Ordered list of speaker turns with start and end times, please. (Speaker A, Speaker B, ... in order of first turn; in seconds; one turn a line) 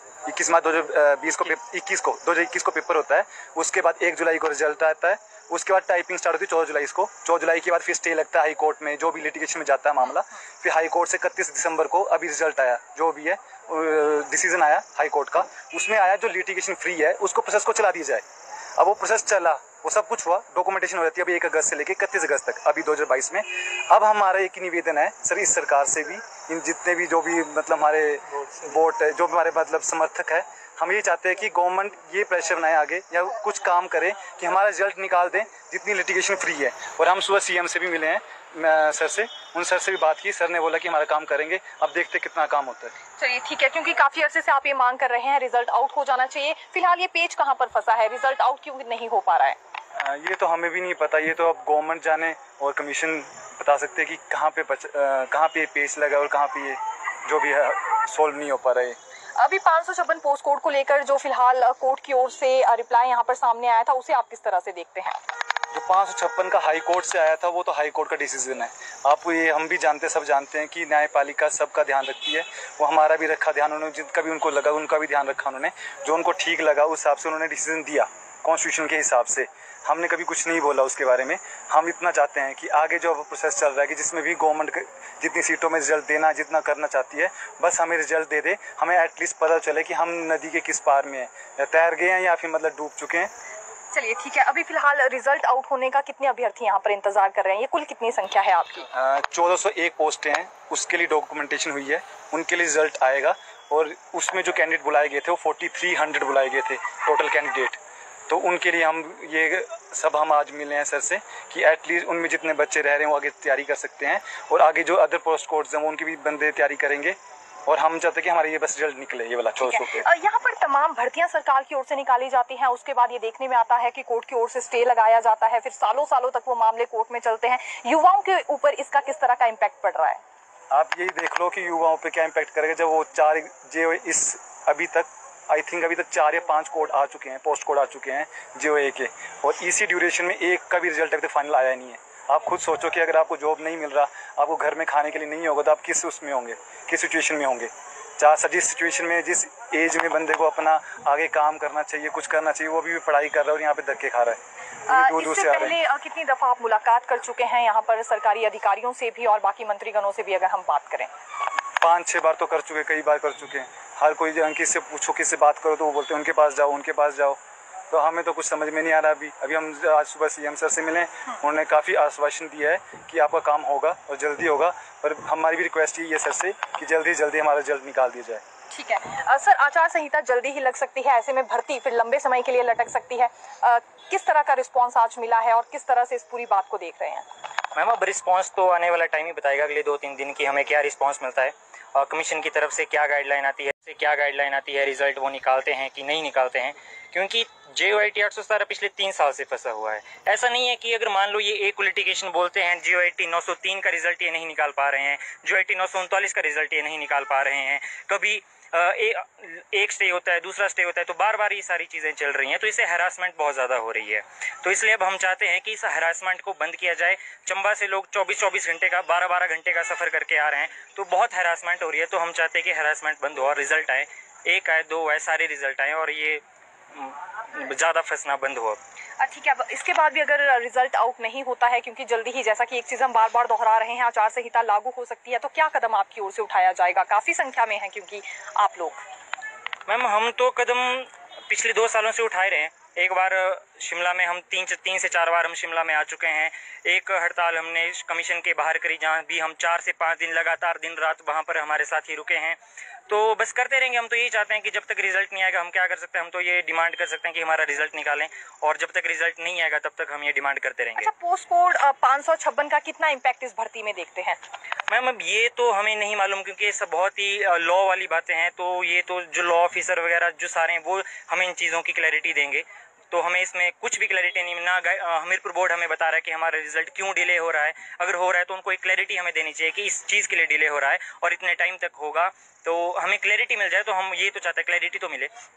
Speaker A: 0.3-18.2
Speaker A: 18.8-42.9
Speaker B: 43.2-49.6
Speaker A: 50.0-59.0
Speaker B: 59.4-65.2
Speaker A: 65.7-93.3
Speaker B: 93.9-98.9
Speaker A: 98.9-117.2
Speaker A: 117.7-120.1
Speaker B: 119.6-130.2
Speaker A: 130.7-155.8
Speaker B: 154.9-161.1
Speaker A: 161.8-167.4
Speaker A: 167.9-178.4
Speaker B: 178.7-187.2
Speaker C: 187.7-228.8
Speaker B: 229.2-239.0
Speaker C: 239.9-252.6
Speaker C: 253.1-261.1
Speaker B: 261.0-264.4
Speaker C: 264.9-285.3